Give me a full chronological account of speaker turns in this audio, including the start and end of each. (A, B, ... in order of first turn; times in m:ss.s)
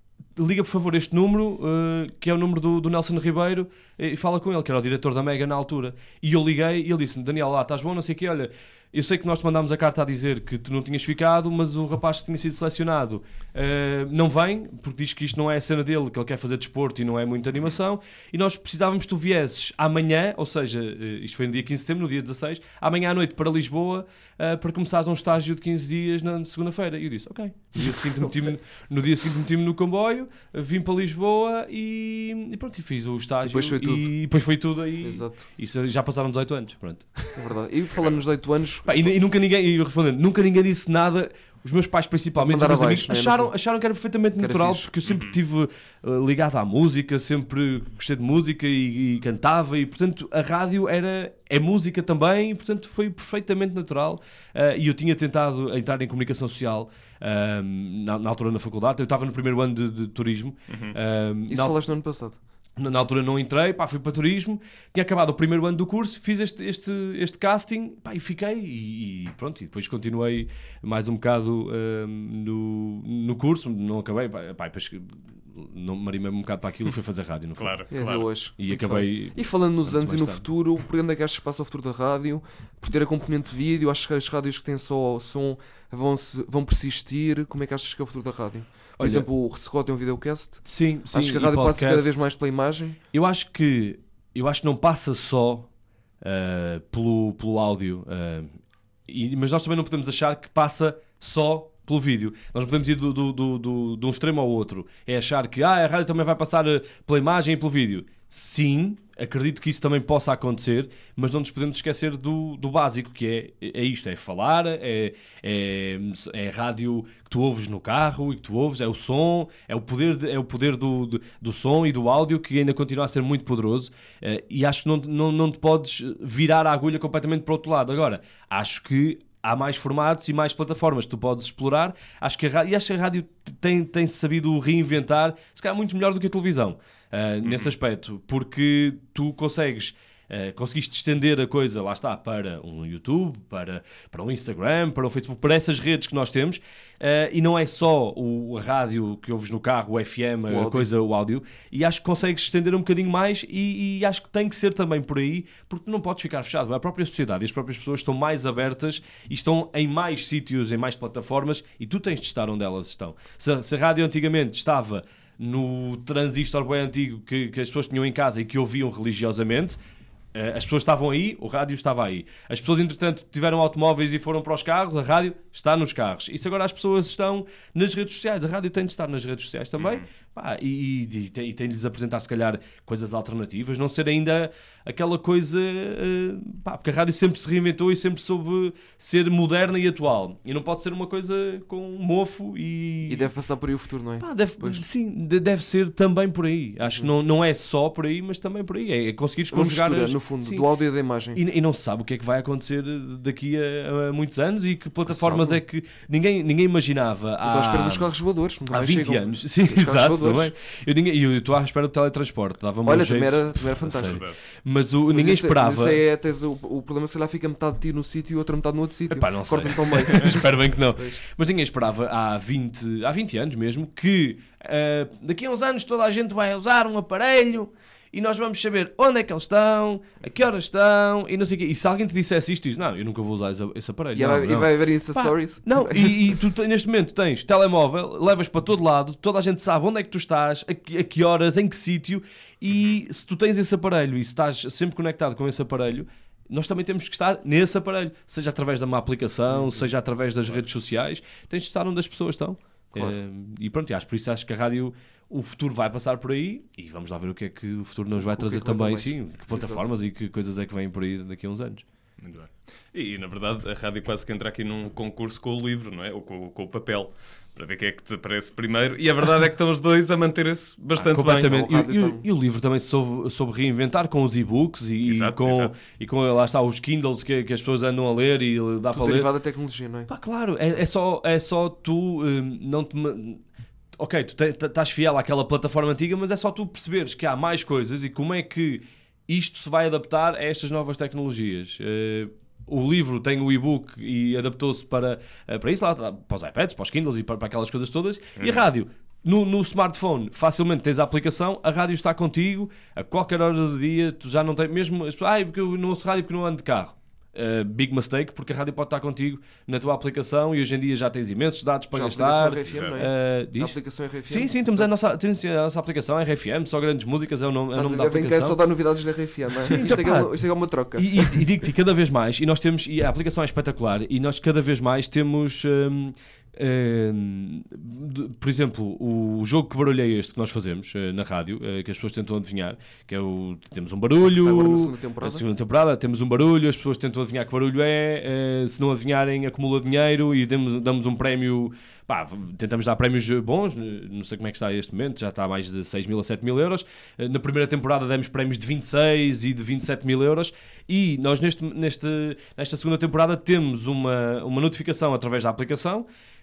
0:00.4-0:37.4 A
0:33.4-0:34.1 B
0:35.0-0:35.4 B
0:37.4-0:39.2 B
0:38.9-1:01.8 A
0:42.4-0:43.5 B
0:44.4-0:44.9 B
0:45.0-0:45.4 C
1:00.7-1:01.0 C
1:01.5-1:02.4 B
1:02.8-1:17.8 A
1:17.6-1:18.3 C
1:17.9-1:33.0 B
1:18.6-1:20.4 A
1:29.0-1:29.3 A
1:30.6-1:32.2 A
1:33.1-1:35.7 A
1:36.2-1:38.6 A
1:39.1-2:49.8 A
2:17.4-2:17.7 C
2:30.5-2:30.9 B
2:50.3-3:13.3 A
2:59.8-3:00.1 C
3:13.1-3:14.8 B
3:14.2-3:20.7 A
3:19.5-3:21.4 B
3:21.3-3:28.1 A
3:25.1-3:25.6 B
3:27.4-3:30.5 B
3:28.7-3:36.0 A
3:32.8-3:34.2 B
3:34.0-3:34.4 C
3:35.1-3:41.2 B
3:39.1-4:21.8 A
3:54.2-3:56.4 B
4:09.5-4:09.9 B
4:18.2-4:19.9 B
4:22.2-4:31.6 C
4:31.0-4:39.3 A
4:31.3-4:32.3 B
4:35.0-4:35.7 C
4:38.9-4:40.1 B
4:40.1-4:43.4 A
4:44.0-5:18.6 A
4:58.4-4:58.6 C
5:11.9-5:14.9 B
5:12.7-5:13.0 C
5:17.7-5:21.4 B
5:19.6-5:20.4 A
5:21.0-5:56.1 A
5:34.2-5:35.4 B